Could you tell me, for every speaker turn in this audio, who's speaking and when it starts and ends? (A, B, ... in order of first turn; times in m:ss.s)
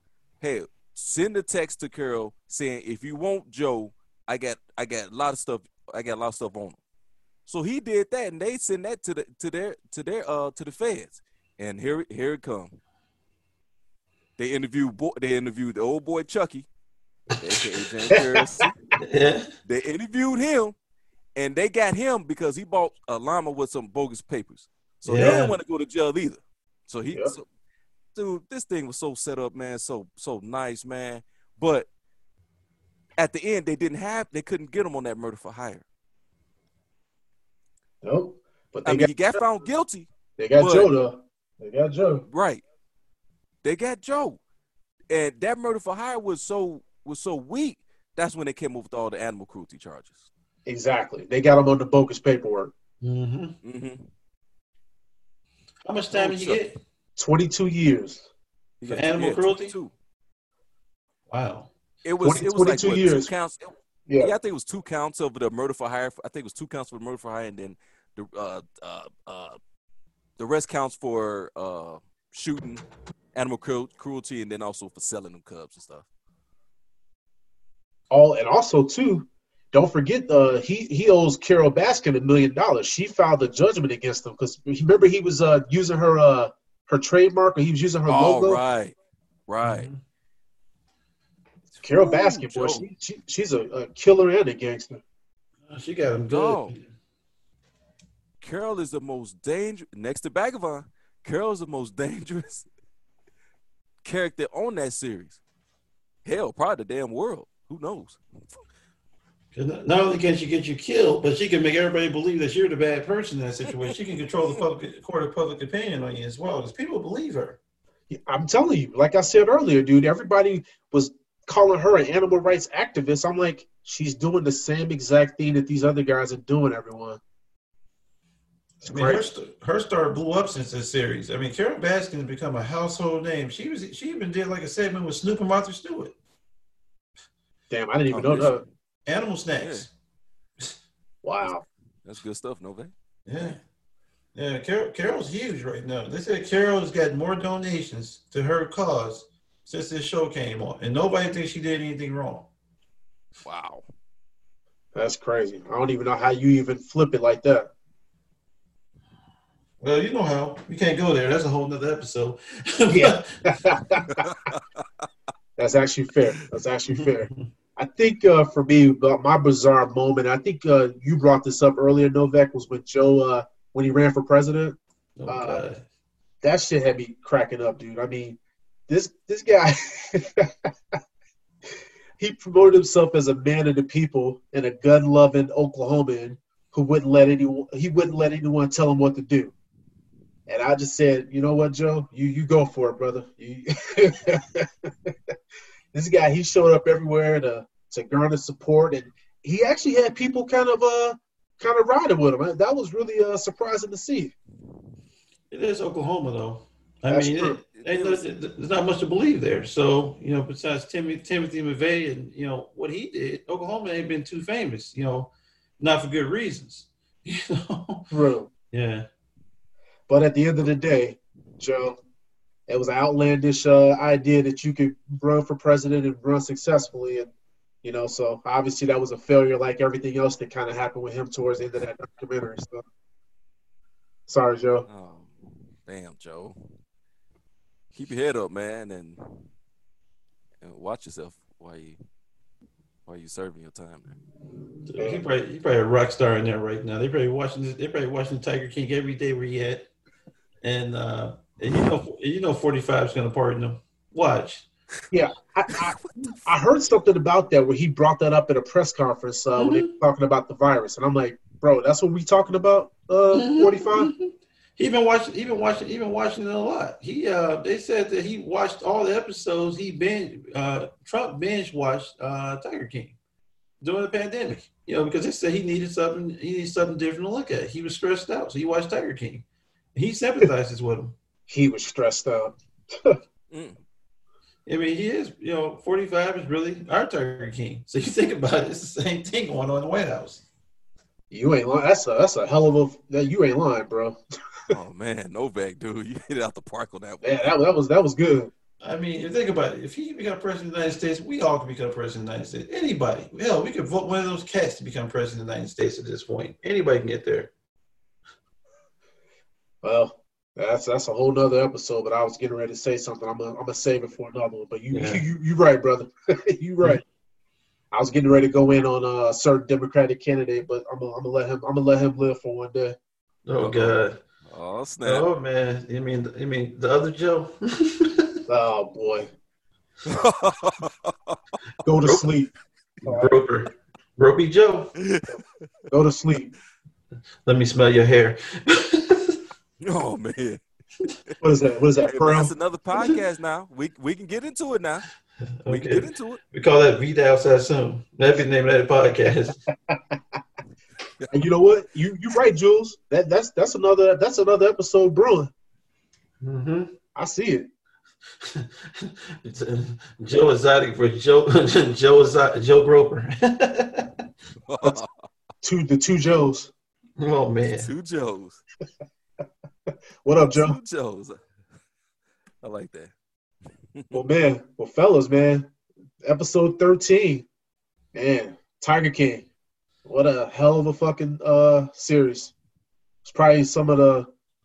0:00.4-0:06.8 A
0:07.4-0:12.8 A
0:14.4-0:16.7 A
0:17.4-0:18.7 A
0:19.0-0:19.5 B
0:19.6-0:20.7 A
0:21.4-0:27.4 A
0:25.0-0:25.5 B
0:28.1-0:31.9 A
0:33.2-0:35.8 A
0:38.0-0:39.3 C
0:38.8-0:40.9 A
0:40.4-0:42.2 C
0:42.3-0:42.6 A
0:43.6-0:44.4 A
0:45.1-0:50.2 A
0:50.6-0:52.7 C
0:53.0-0:53.6 B
0:53.6-0:54.1 A
0:55.8-0:56.7 B
0:56.1-0:56.7 A
0:57.2-0:58.3 C
0:58.8-0:59.9 A
0:58.9-0:59.7 B
1:01.3-1:01.7 B
1:02.0-1:09.6 A
1:02.2-1:03.3 C
1:04.1-1:04.3 C
1:10.4-1:12.8 A
1:13.3-1:16.0 A
1:18.1-1:28.6 C
1:28.1-1:29.0 A
1:29.5-1:29.9 A
1:29.6-1:30.0 B
1:31.7-1:32.8 A
1:31.8-1:35.0 C
1:35.7-1:36.8 B
1:36.3-1:36.7 A
1:38.4-1:42.7 A
1:44.0-1:45.4 A
1:46.2-1:48.2 A
1:49.5-1:57.6 B
1:58.1-2:07.2 C
2:08.8-2:09.2 C
2:08.8-2:16.1 B
2:17.7-2:18.6 C
2:18.1-2:18.7 A
2:19.1-2:19.9 B
2:19.6-2:19.9 A
2:21.2-2:21.6 C
2:21.4-2:22.9 A
2:23.2-2:23.6 B
2:24.3-2:32.5 B
2:33.4-2:33.8 A
2:34.9-2:37.7 C
2:39.8-2:43.6 B
2:42.9-2:44.2 C
2:44.1-2:44.8 A
2:45.6-2:55.6 C
2:46.9-2:47.4 B
2:55.2-2:55.8 B
2:56.4-3:00.7 C
3:02.2-3:09.5 C
3:10.5-3:15.1 C
3:15.9-3:24.3 C
3:25.5-3:38.1 B
3:27.1-3:27.6 C
3:27.7-3:28.2 A
3:38.1-3:38.5 C
3:38.7-3:39.1 B
3:40.1-3:42.0 C
3:42.7-3:47.3 C
3:47.8-3:52.8 C
3:54.3-3:54.9 C
3:54.9-3:56.6 A
3:57.9-3:59.5 A
4:00.6-4:02.0 A
4:03.0-4:04.2 A
4:04.8-4:09.9 B
4:05.0-4:05.2 C
4:10.6-4:14.7 B
4:15.1-4:24.1 C
4:15.8-4:16.5 A
4:19.5-4:19.9 B
4:23.3-4:24.2 B
4:24.8-4:33.2 B
4:33.8-4:41.1 B
4:41.5-4:43.2 C
4:43.5-4:43.8 A
4:44.6-4:50.4 B
4:51.3-4:54.2 C
4:54.7-4:57.5 A
4:57.2-4:58.5 C
4:58.8-5:07.5 B
5:09.8-5:17.0 C
5:14.9-5:15.2 B
5:17.9-5:23.0 C
5:23.4-5:24.2 B
5:23.6-5:25.2 A
5:25.0-5:28.3 B
5:28.5-5:29.3 C
5:30.0-5:31.4 A
5:31.8-5:32.5 C
5:33.0-5:33.4 C
5:33.0-5:34.9 B
5:35.0-5:35.4 A
5:35.9-5:36.5 C
5:37.4-5:39.4 B
5:39.8-5:40.6 A
5:41.4-5:42.5 C
5:42.0-5:45.0 A
5:45.6-5:49.6 B
5:45.7-5:46.4 A
5:49.9-5:50.2 C
5:51.3-5:55.5 C
5:56.4-5:56.9 B
5:57.1-5:57.7 C
5:58.4-6:04.1 B
6:04.7-6:05.2 A
6:05.6-6:06.7 C
6:07.2-6:07.9 B
6:07.8-6:08.6 A
6:10.2-6:10.8 C
6:10.5-6:11.4 A
6:12.6-6:13.1 A
6:13.9-6:14.2 A
6:14.1-6:15.7 C
6:16.2-6:17.5 C
6:18.1-6:19.5 C
6:20.0-6:22.5 C
6:23.2-6:24.3 C